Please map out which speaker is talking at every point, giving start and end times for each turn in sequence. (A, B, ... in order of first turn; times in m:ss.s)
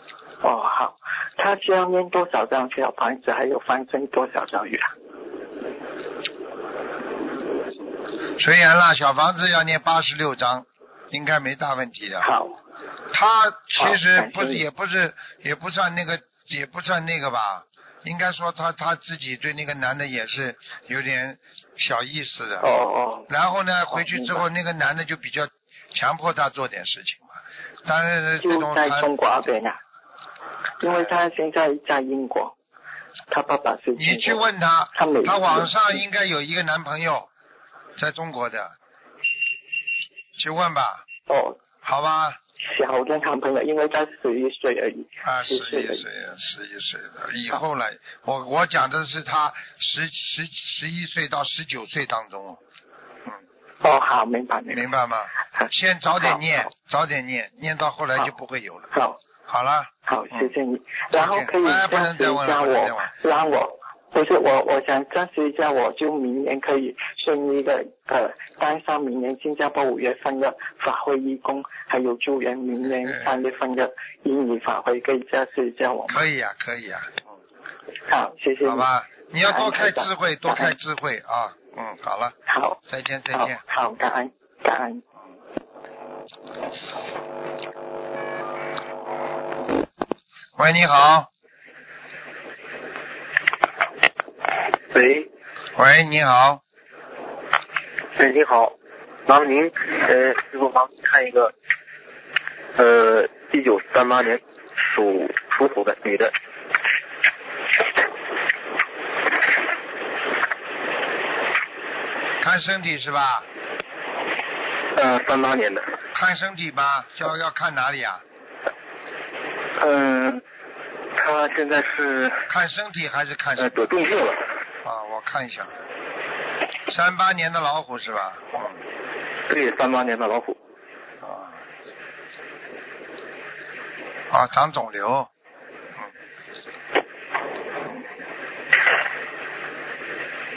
0:00.4-0:04.9 A
0:08.4-0:12.3 B
0:12.2-0:12.6 A
0:13.1-0:22.7 B
0:13.8-0:14.6 A
0:22.6-0:23.3 A
0:23.3-0:27.3 B
0:23.9-0:24.4 A
0:27.9-0:29.1 B
0:28.4-0:29.8 A
0:30.8-0:32.6 A
0:30.8-0:31.1 B
0:33.3-0:35.9 A
0:34.0-0:37.3 B
0:38.0-0:38.8 B
0:40.4-0:41.0 B
0:41.3-0:41.6 A
0:41.8-0:42.4 B
0:42.7-0:46.0 A
0:45.2-0:52.6 B
0:53.8-0:54.9 A
0:54.7-0:58.9 B
0:55.6-0:56.7 A
0:58.9-0:59.2 A
0:59.5-1:00.5 B
1:00.1-1:16.2 A
1:01.1-1:03.1 B
1:13.0-1:13.4 B
1:16.1-1:17.3 B
1:18.1-1:18.9 A
1:18.6-1:22.4 B
1:19.4-1:20.8 A
1:22.5-1:22.8 A
1:22.9-1:23.6 B
1:23.3-1:25.0 A
1:30.6-1:31.3 B
1:35.8-1:36.6 B
1:38.2-1:38.6 C
1:39.3-1:41.5 C
1:42.8-1:46.3 C
1:52.4-1:53.5 B
1:55.0-1:55.9 C
1:56.1-1:58.2 B
1:59.8-2:00.4 C
2:01.2-2:02.5 C
2:02.5-2:03.9 B
2:03.6-2:04.4 C
2:04.8-2:05.7 B
2:06.9-2:08.8 B
2:09.5-2:10.6 C
2:11.2-2:11.5 B
2:14.3-2:15.3 B